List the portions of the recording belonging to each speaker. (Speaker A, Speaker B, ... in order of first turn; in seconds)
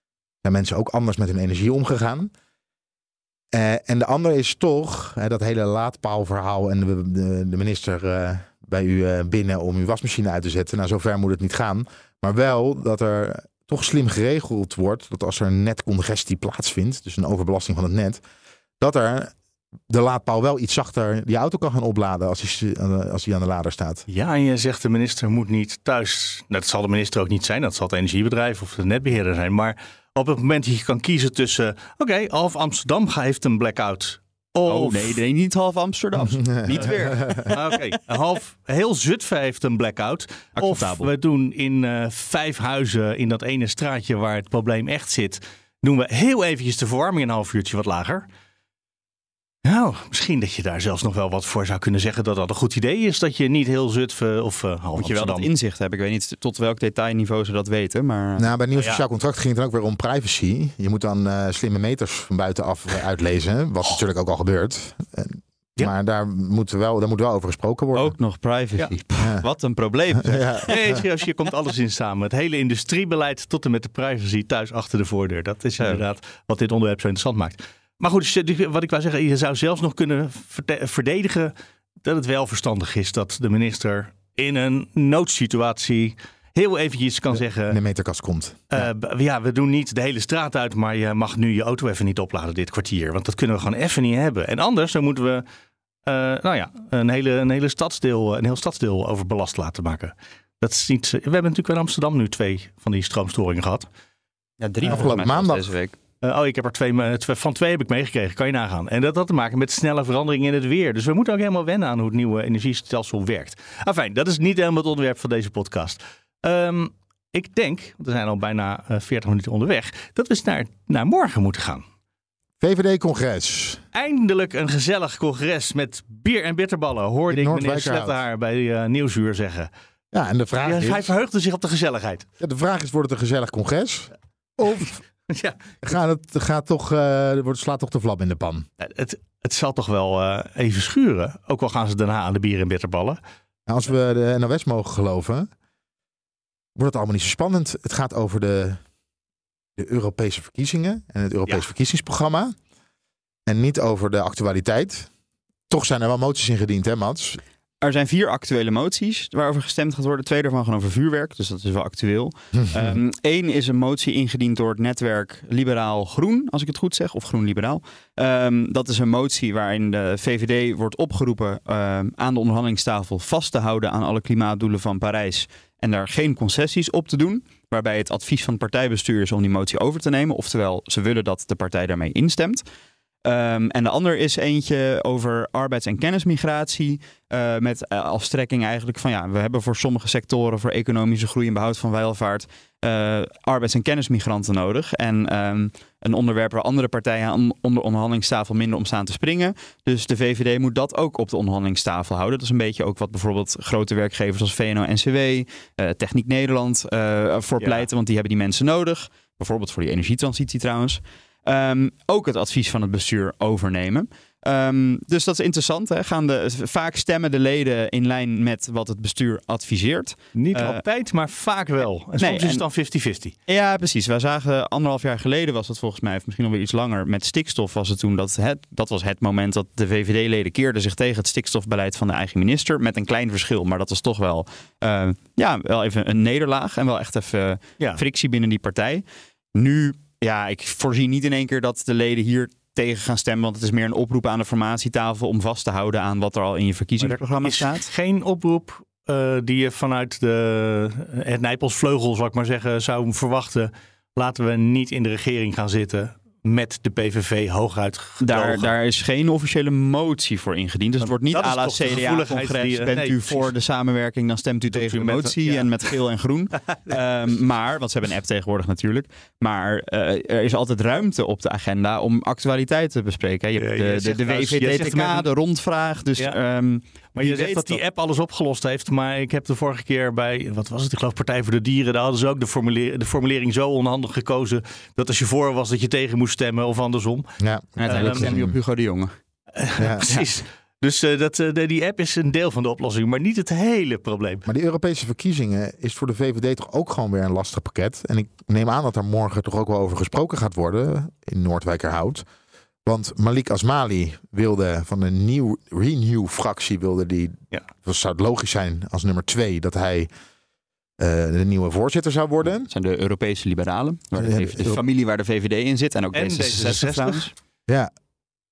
Speaker A: 0.4-2.3, 3.5-18.2, 18.8-19.3, 19.9-24.0, 36.1-37.5, 58.4-68.1, 69.2-69.4, 70.1-71.0, 87.3-88.9, 104.9-105.7, 122.6-123.8, 127.3-128.2, 130.1-131.1, 132.4-135.0, 135.8-138.7, 143.7-145.5, 146.8-148.8, 149.8-152.6, 153.4-155.1, 155.7-157.4, 162.5-163.0, 287.4-288.6, 289.8-290.0, 294.5-302.2, 302.8-310.1, 311.0-312.7, 314.2-314.8
Speaker B: 24.1-35.2, 37.5-48.2, 49.6-55.5, 58.7-59.0, 70.7-87.8, 88.7-95.4, 96.0-103.9, 104.8-105.1, 106.2-121.8, 123.9-129.7, 130.6-132.2, 134.7-135.6, 138.8-143.2, 207.6-207.9, 220.3-223.3, 247.0-258.7, 261.0-263.5, 264.7-265.7, 273.6-275.3, 277.1-287.3, 287.9-288.3, 289.6-294.4, 316.1-317.3
Speaker C: 34.7-37.9, 40.5-41.1, 55.0-58.5, 67.9-70.6, 104.6-106.0, 157.8-182.6, 183.2-220.8, 222.2-222.6, 223.5-239.0, 239.5-247.9, 258.2-277.8, 287.8-289.1, 312.7-317.3